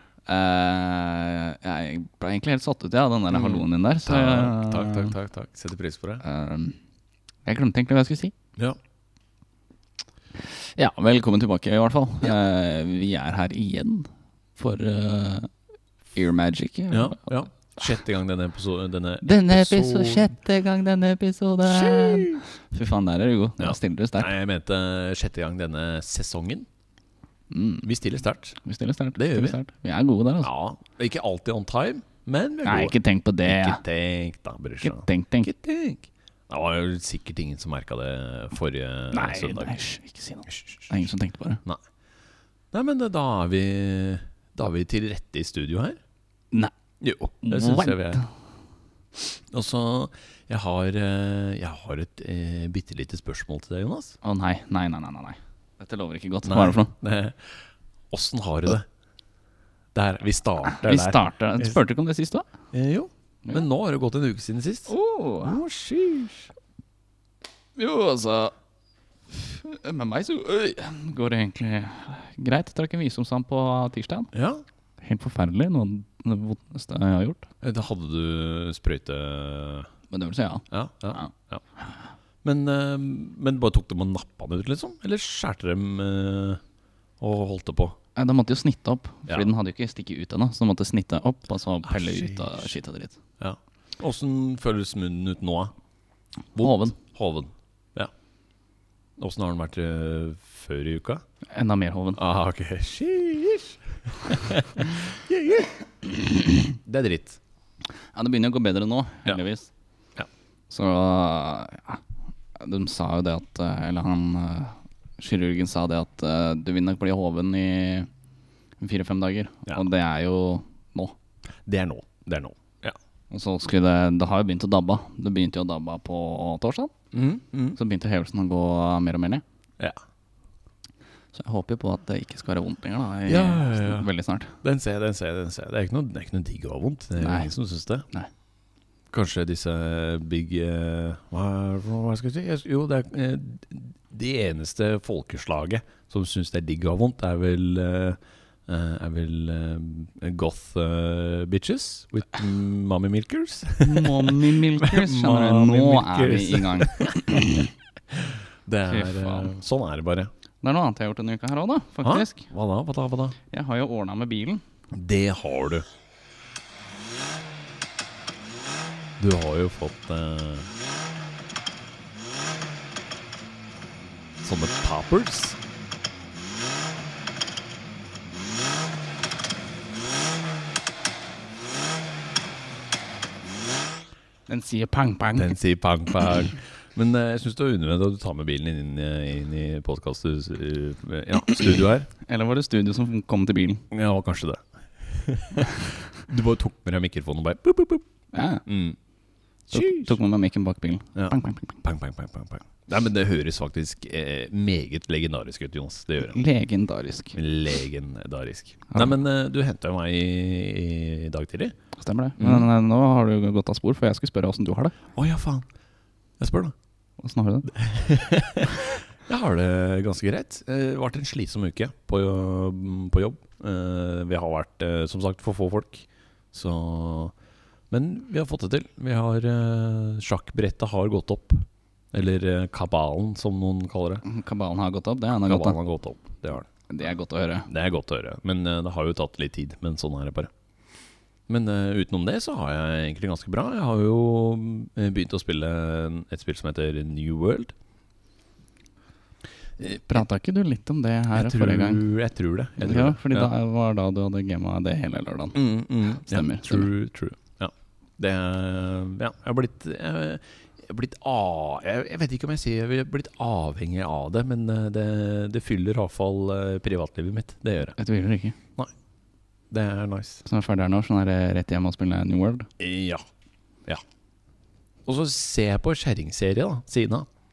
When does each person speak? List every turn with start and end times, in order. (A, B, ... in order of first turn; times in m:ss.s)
0:00.3-0:05.1 A
0:03.3-0:06.2 B
0:06.2-0:06.8 A
0:07.4-0:08.3 A
0:10.4-0:15.5 A
0:16.1-0:17.3 A
0:16.9-0:20.3 B
0:19.2-0:24.3 A
0:21.6-0:22.4 B
0:23.6-0:26.7 B
0:27.5-0:27.9 A
0:27.8-0:28.6 B
0:28.6-0:30.5 A
0:29.1-0:29.6 B
0:30.4-0:39.8 B
0:32.6-0:33.8 A
0:34.8-0:35.5 A
0:39.1-0:41.6 A
0:40.5-0:40.9 B
0:42.7-0:46.0 B
0:47.0-0:48.2 B
0:47.4-0:48.3 A
0:49.2-0:54.2 B
0:54.2-0:56.9 A
0:56.4-0:58.9 B
0:59.9-1:01.8 B
1:00.6-1:02.4 A
1:02.7-1:06.5 B
1:04.9-1:05.6 A
1:07.8-1:08.5 A
1:09.3-1:14.3 A
1:14.3-1:14.6 B
1:15.0-1:17.5 A
1:17.6-1:19.9 B
1:20.1-1:21.3 A
1:20.7-1:21.6 B
1:22.4-1:26.6 B
1:27.2-1:28.0 B
1:28.2-1:33.2 A
1:31.8-1:32.7 B
1:33.4-1:35.7 B
1:36.5-1:38.1 B
1:36.6-1:36.9 A
1:39.2-1:41.2 B
1:41.5-1:42.2 A
1:42.2-1:45.7 B
1:46.0-1:46.7 A
1:46.8-1:47.4 B
1:48.1-1:49.7 A
1:50.7-1:52.0 A
1:52.6-1:58.1 A
1:58.8-2:01.2 A
2:01.6-2:02.9 B
2:03.3-2:06.9 A
2:07.1-2:07.8 B
2:07.7-2:09.4 A
2:11.3-2:14.6 A
2:13.3-2:14.1 B
2:14.6-2:18.0 B
2:17.2-2:17.5 A
2:19.1-2:37.4 B
2:33.8-2:37.7 A
2:38.1-2:40.3 B
2:38.9-2:39.5 A
2:40.6-2:42.4 A
2:42.0-2:43.4 B
2:43.5-2:44.6 A
2:44.9-2:45.8 B
2:49.2-2:50.7 B
2:54.4-2:55.6 B
3:04.5-3:05.5 A
3:05.4-3:12.1 B
3:12.2-3:13.8 A
3:13.9-3:18.0 B
3:18.3-3:18.6 A
3:18.6-3:19.0 B
3:19.7-3:20.2 B
3:19.7-3:21.8 A
3:21.1-3:26.4 B
3:26.2-3:27.4 A
3:27.3-3:31.7 B
3:32.0-3:34.9 A
3:32.4-3:32.7 B
3:35.1-3:35.7 B
3:36.4-3:36.7 B
3:37.2-3:37.7 A
3:37.7-3:47.3 B
3:47.9-3:54.2 B
3:54.2-3:55.8 A
3:55.4-3:56.7 B
3:56.9-3:57.7 A
3:57.7-4:00.5 B
4:01.5-4:07.7 B
4:09.8-4:10.2 B
4:09.9-4:12.0 A
4:11.3-4:13.5 B
4:12.8-4:15.6 A
4:15.5-4:28.0 B
4:16.2-4:16.9 A
4:28.0-4:28.6 A
4:29.7-4:30.4 B
4:30.4-4:32.7 A
4:32.8-4:33.2 B
4:35.0-4:37.3 B